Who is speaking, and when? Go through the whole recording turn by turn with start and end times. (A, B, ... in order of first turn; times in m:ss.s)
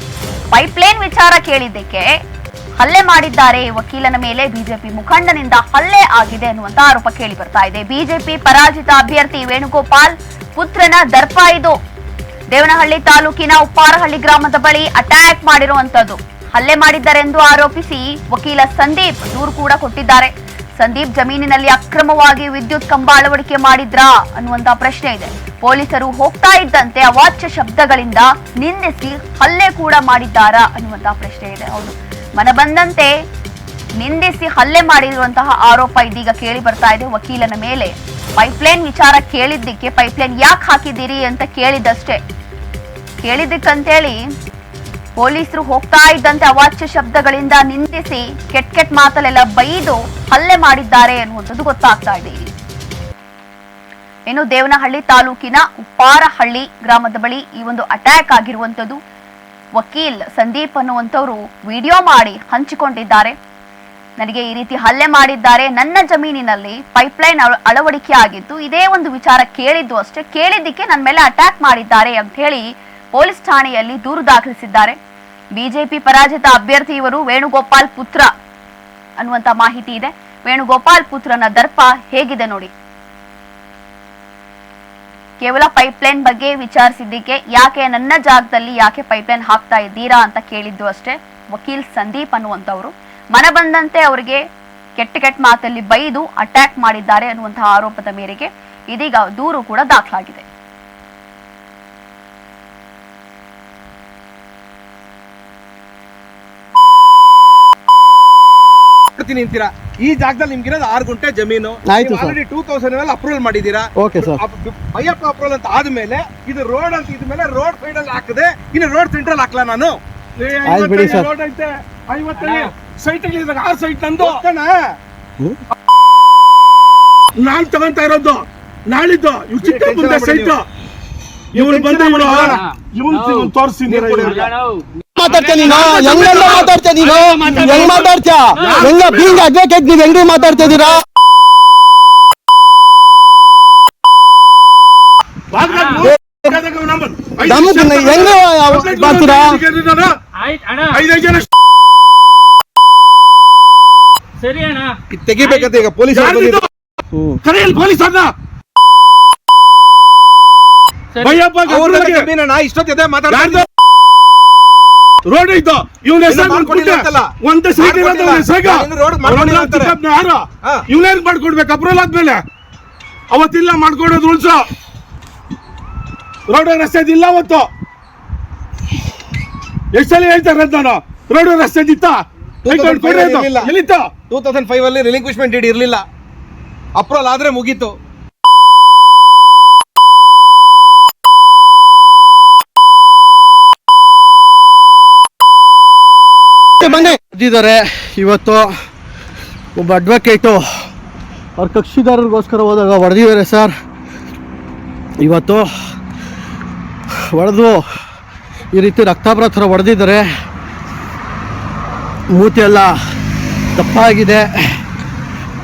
0:00.5-0:02.1 A
0:02.8-0:11.8 A
0:12.5-0:33.1 A
0:34.0-0:42.2 A
0:43.2-0:44.2 A
0:45.2-0:52.5 A
0:54.3-0:59.0 A
0:59.8-1:03.4 A
1:04.2-1:15.0 A
1:15.6-1:18.3 A
1:19.2-1:22.7 A
1:25.4-1:34.4 A
1:35.0-1:40.5 A
1:49.2-2:00.0 B
1:51.9-1:52.4 C
1:54.0-1:54.4 C
2:00.4-2:04.4 D
2:00.6-2:01.3 C
2:02.4-2:02.7 E
2:04.2-2:05.0 B
2:07.4-2:10.7 D
2:09.6-2:10.6 B
2:11.5-2:14.4 D
2:11.5-2:12.6 B
2:12.4-2:13.5 E
2:13.9-2:14.5 B
2:14.2-2:19.2 E
2:15.2-2:21.0 C
2:15.6-2:16.7 D
2:17.6-2:17.8 D
2:18.6-2:19.4 D
2:25.5-2:30.2 D
2:25.6-2:26.1 E
2:26.0-2:26.6 C
2:27.4-2:29.6 C
2:30.4-2:31.0 E
2:30.9-2:31.5 D
2:34.4-2:35.8 E
2:35.1-2:36.6 B
2:36.1-2:36.7 D
2:37.4-2:38.3 D
2:41.2-2:42.3 D
2:41.7-2:43.6 B
2:43.3-2:43.7 D
2:45.2-2:52.4 D
2:46.3-2:50.0 B
2:53.3-2:54.7 D
2:56.5-2:57.7 D
2:59.9-3:04.1 D
3:02.6-3:03.7 B
3:04.3-3:06.0 B
3:07.0-3:08.0 B
3:16.8-3:18.7 C
3:19.8-3:20.8 C
3:21.6-3:23.7 C
3:25.2-3:25.7 C
3:27.3-3:27.8 C
3:28.7-3:30.3 C
3:32.3-3:33.0 C
3:33.7-3:34.8 C